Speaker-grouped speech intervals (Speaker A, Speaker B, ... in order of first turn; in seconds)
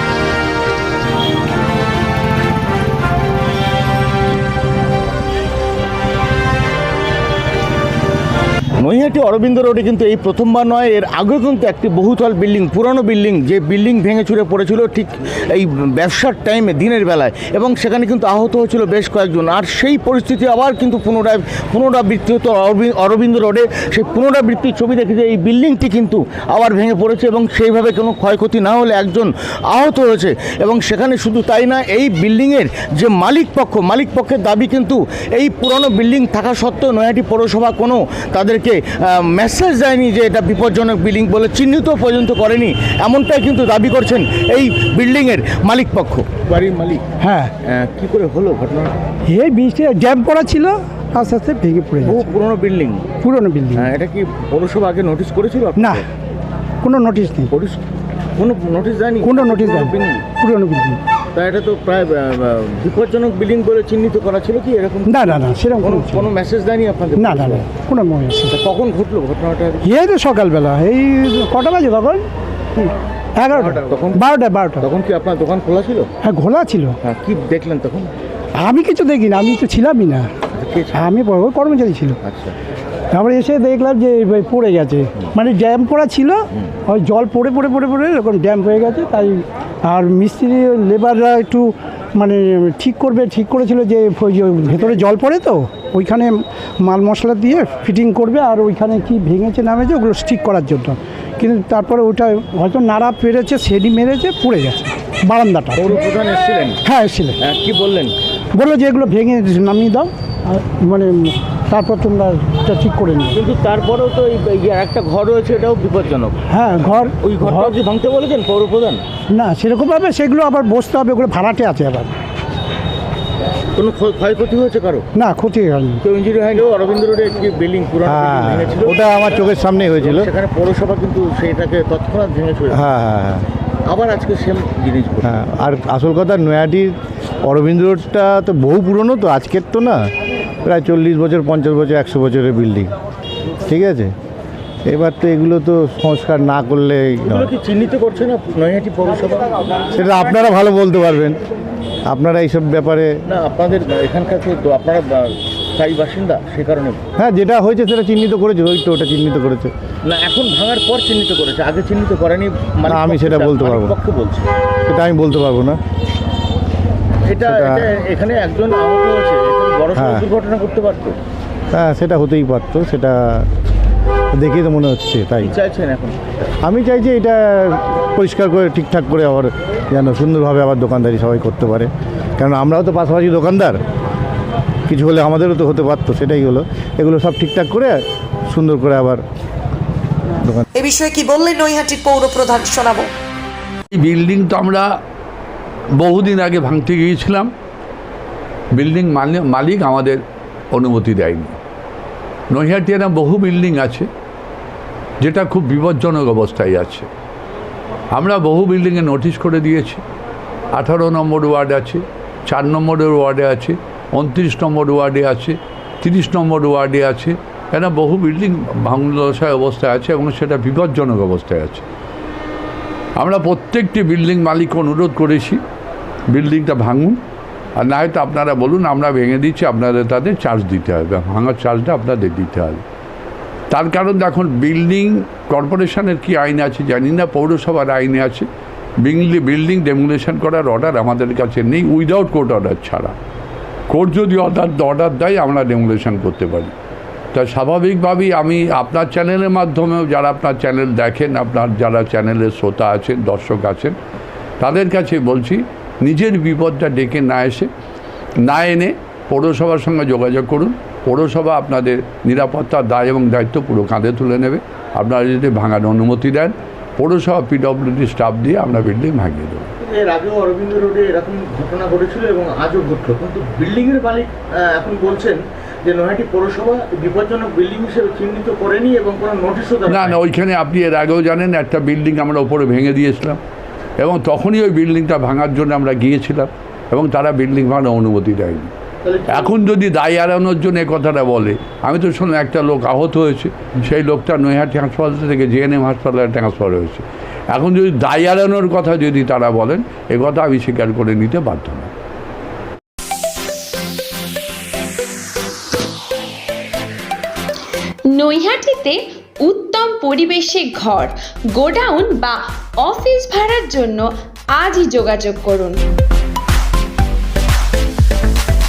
Speaker A: 8.8-47.0, 47.6-49.1, 52.0-53.1, 53.7-56.0, 57.5-57.8, 58.4-60.3, 61.3-67.7, 68.5-69.9, 73.5-76.1, 77.0-78.1, 80.5-81.1, 82.2-82.5, 105.7-106.8, 107.4-108.2, 113.3-116.3, 116.9-119.0, 123.8-125.1, 126.0-129.0, 130.0-132.8, 133.8-135.3, 147.2-149.5, 153.3-157.0, 160.0-164.5, 167.2-171.2, 175.4-176.2, 269.8-280.2, 289.0-289.6
Speaker B: 47.2-47.5, 49.3-52.3, 53.2-53.9, 55.8-56.0, 56.8-57.5, 59.2-61.0, 65.0-66.3, 67.2-68.5, 69.8-72.3, 73.4-74.8, 76.2-77.0, 78.6-80.3, 80.9-82.2, 83.1-105.9, 106.8-107.4, 108.5-113.4, 116.5-117.7, 119.3-122.1, 125.2-126.0
Speaker C: 128.0-130.3, 132.7-133.4, 135.2-136.9, 137.4-140.1, 140.7-142.9, 143.7-144.1, 144.8-147.5, 149.9-151.4, 152.1-153.2, 157.2-159.7, 162.9-164.0, 164.9-165.8, 167.4-167.9, 169.9-170.2, 171.7-173.4, 174.3-175.5, 176.6-183.8, 184.9-188.0, 188.5-189.2
Speaker D: 190.8-193.1
Speaker E: 193.9-194.9, 196.0-197.5, 198.7-200.2, 200.7-201.6, 202.5-204.1, 205.2-207.1, 208.1-210.0, 210.7-221.8, 223.2-225.6, 226.3-227.2, 227.8-232.8, 233.7-238.4, 239.0-243.1, 243.9-246.7, 247.3-253.9, 254.6-257.7, 258.4-269.7, 279.9-283.4, 284.0-288.7, 289.3-301.9
Speaker F: 308.1-315.8